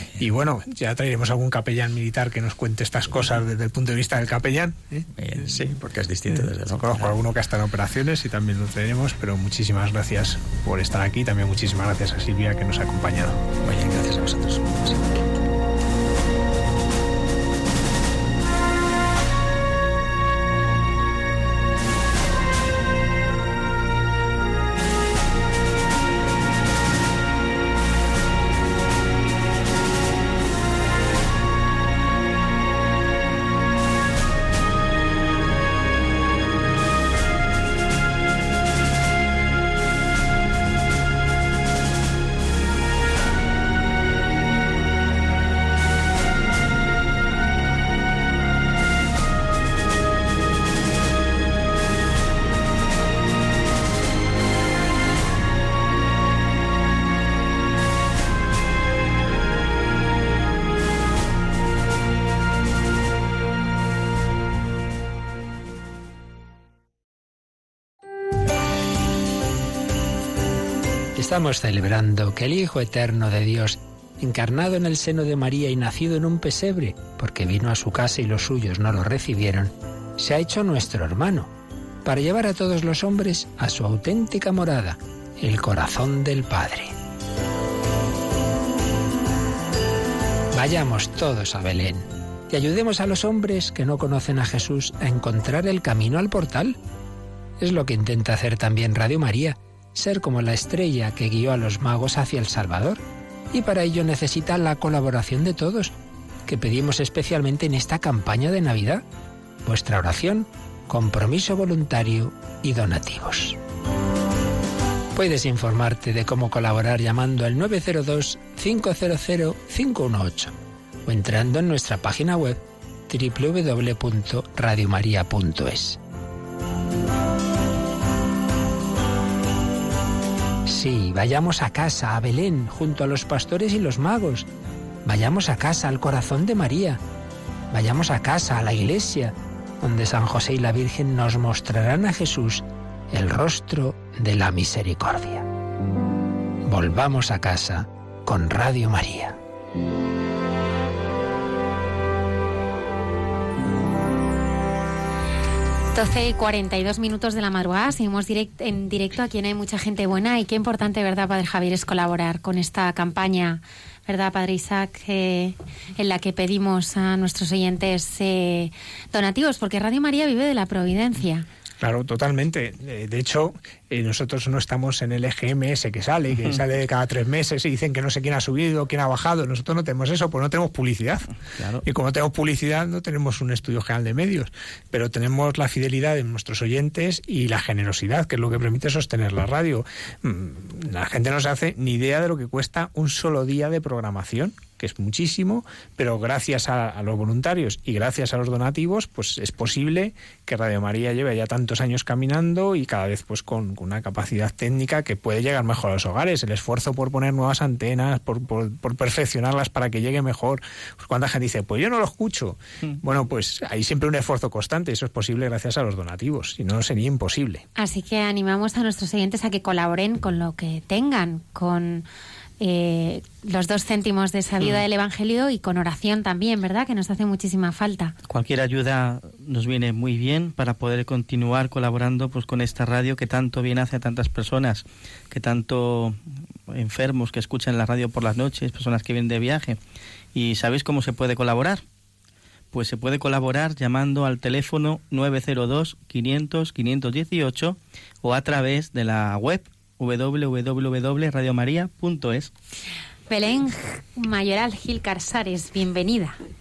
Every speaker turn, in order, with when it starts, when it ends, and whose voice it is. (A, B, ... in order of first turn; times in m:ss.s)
0:00.2-0:05.4 A
0:05.2-0:07.2 B
0:06.6-0:13.4 A
0:13.6-0:15.3 B
1:11.2-1:21.5 C
1:22.0-1:26.9 C
1:30.5-1:36.8 C
1:37.6-1:45.9 C
1:46.5-1:49.0 C
1:49.6-1:53.6 C
1:55.1-2:06.0 C
2:10.6-2:14.5 C
2:15.0-2:17.0 C
2:17.7-2:25.5 C
2:26.6-2:29.4 C
2:35.9-2:51.4 D
2:51.8-3:01.3 A
3:01.8-3:37.6 A
3:37.8-3:42.0 D
3:42.6-3:48.1 D
3:48.3-3:59.8 E
4:00.3-4:01.8 E
4:02.7-4:12.5 E
4:13.3-4:16.4 D